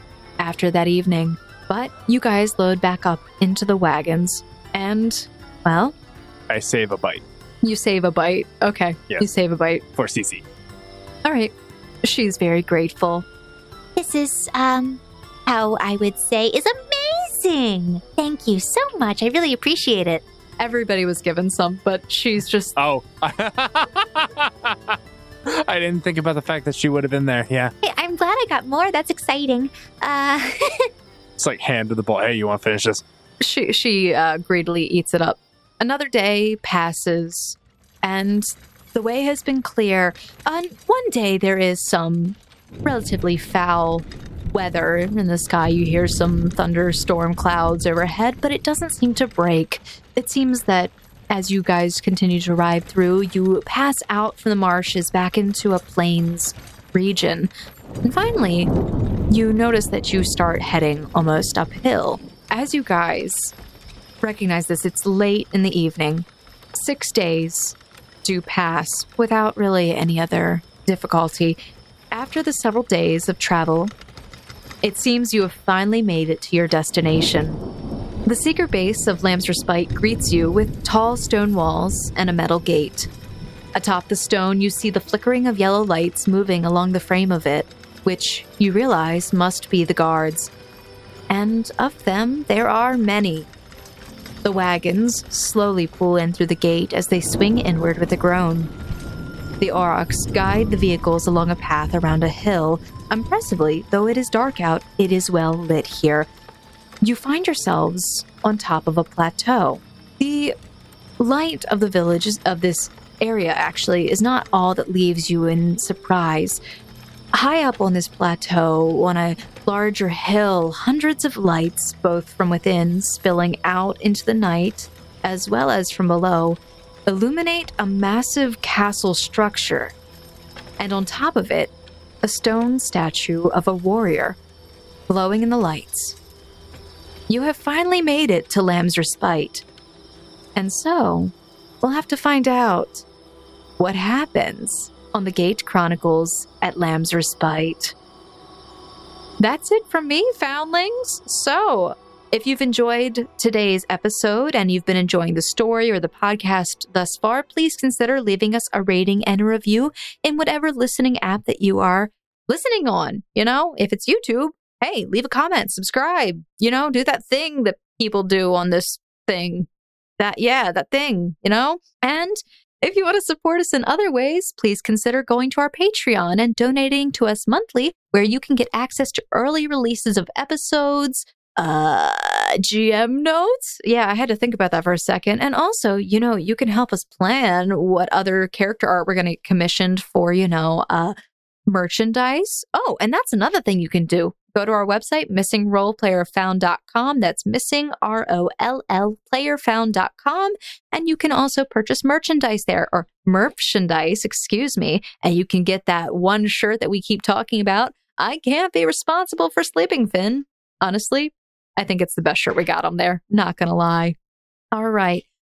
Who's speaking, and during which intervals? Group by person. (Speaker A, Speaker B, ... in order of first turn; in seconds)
Speaker A: 0.4-5.9, 7.6-9.8, 11.2-11.5, 12.0-13.2, 20.6-22.7, 33.4-57.5, 58.0-58.7, 59.3-63.5, 64.2-71.6, 72.1-73.9, 74.8-77.6, 78.2-83.1, 83.7-90.5, 91.3-93.5, 94.4-98.7, 99.6-106.3, 107.0-110.5, 111.2-116.6, 117.3-129.9, 130.8-131.7, 132.2-134.4, 135.1-136.2, 137.3-139.6, 140.6-141.3, 141.8-143.0, 143.8-147.9, 149.4-169.7, 170.2-191.1, 191.7-214.2, 214.7-215.2
Speaker B: 6.5-7.2, 9.9-10.4, 22.8-27.7, 31.4-33.0
Speaker C: 13.9-20.2, 27.8-30.9